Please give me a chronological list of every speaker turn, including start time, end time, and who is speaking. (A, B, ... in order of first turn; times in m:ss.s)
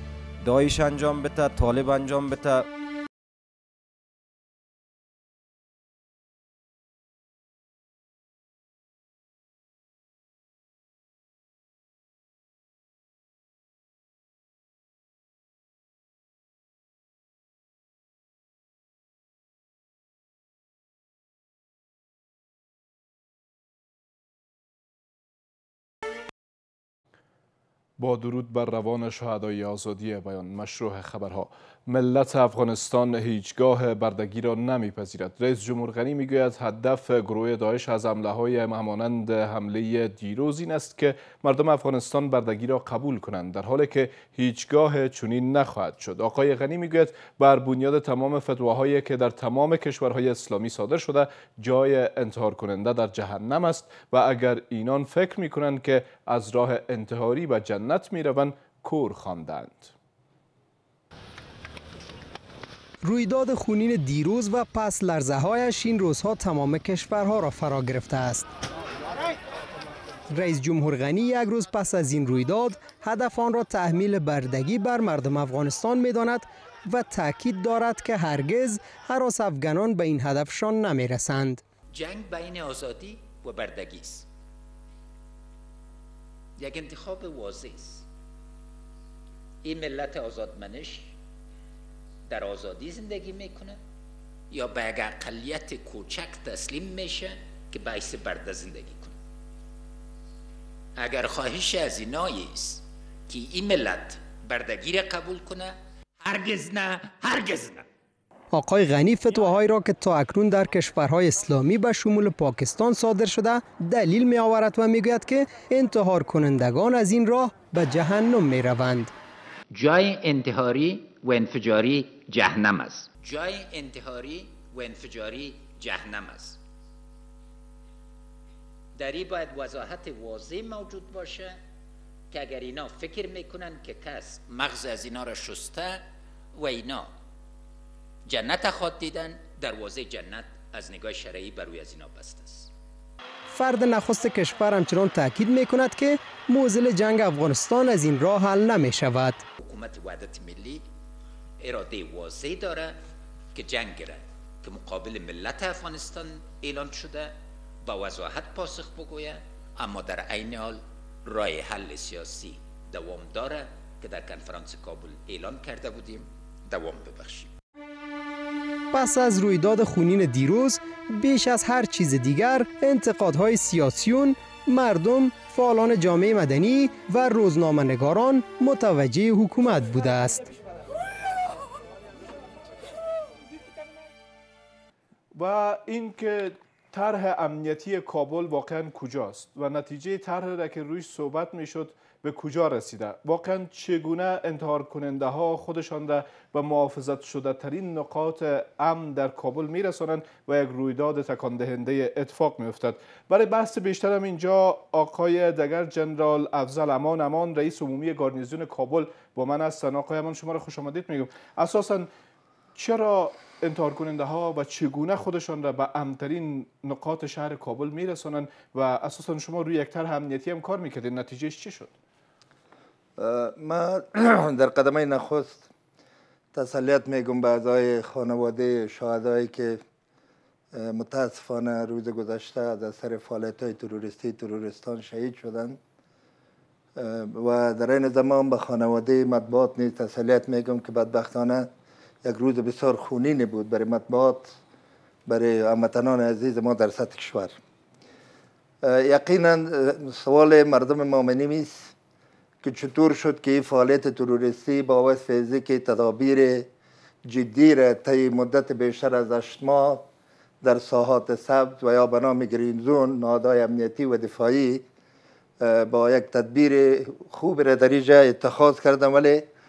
0:00.4-0:02.6 A
0:28.0-0:59.9 B
1:03.0-1:08.5 C
1:10.3-1:21.6 C
1:21.9-1:24.3 D
1:26.6-1:28.1 D
1:29.6-1:31.2 D
1:32.3-1:33.8 D
1:34.5-1:39.2 D
1:41.0-1:47.8 D
1:48.5-1:59.1 C
1:59.7-2:06.6 D
2:09.0-2:11.6 D
2:12.3-2:16.0 D
2:16.6-2:17.1 D
2:18.3-2:22.7 D
2:23.5-2:29.4 C
2:29.6-2:30.9 D
2:31.6-2:33.0 D
2:33.5-2:47.5 D
2:48.9-3:00.4 C
3:05.3-3:32.1 B
3:32.8-3:41.9 B
3:43.2-3:45.7 E
3:46.5-3:49.8 E
3:50.7-3:55.8 E
3:57.0-4:01.7 E
4:02.2-4:04.6 E
4:05.3-4:07.5 E
4:08.8-4:11.9 E
4:12.6-4:16.7 E
4:17.3-4:20.0 E
4:20.6-4:24.8 E
4:25.6-4:29.4 E